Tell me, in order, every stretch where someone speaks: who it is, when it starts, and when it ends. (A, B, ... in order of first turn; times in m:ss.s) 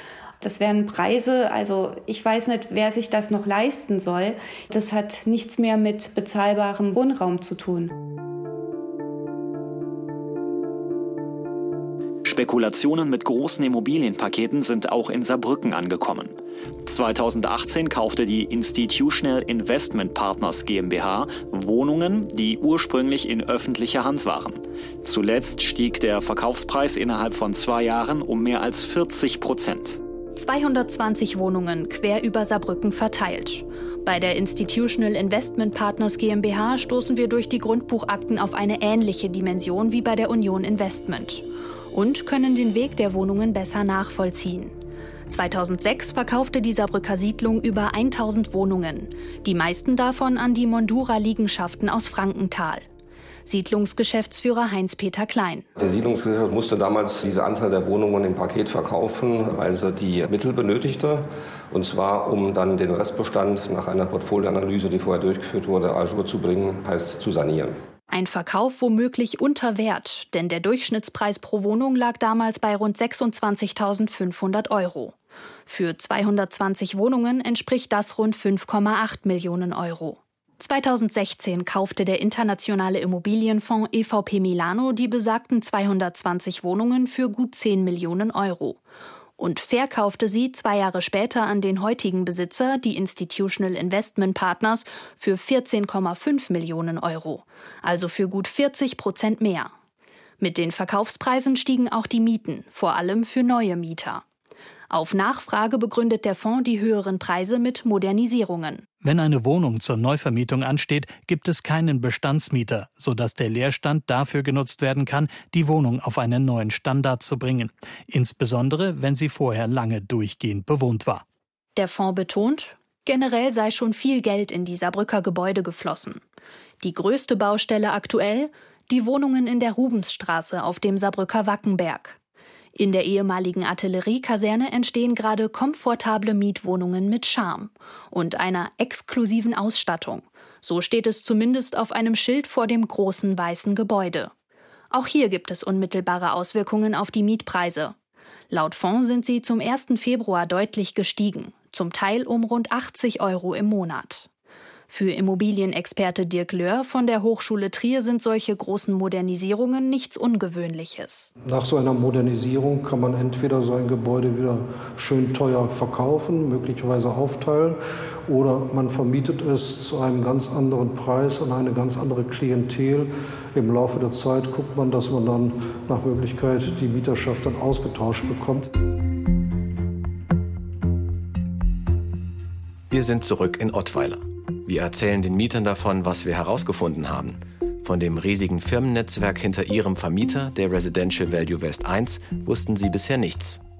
0:00.4-0:07.9 A
0:12.2-0:30.0 B
0:30.4-0:44.7 C
0:45.3-0:52.8 C
0:53.4-0:55.7 C
0:55.8-1:07.7 D
1:08.1-1:15.1 C
1:15.7-1:28.8 C
1:29.4-1:39.7 C
1:40.4-1:44.2 C
1:44.9-1:48.9 C
1:49.0-2:01.2 E
2:01.8-2:06.2 C
2:06.8-2:12.2 C
2:12.7-2:24.3 C
2:24.9-2:27.9 C
2:28.5-2:34.3 C
2:34.9-2:41.3 C
2:41.4-2:58.7 F
3:02.9-3:13.6 G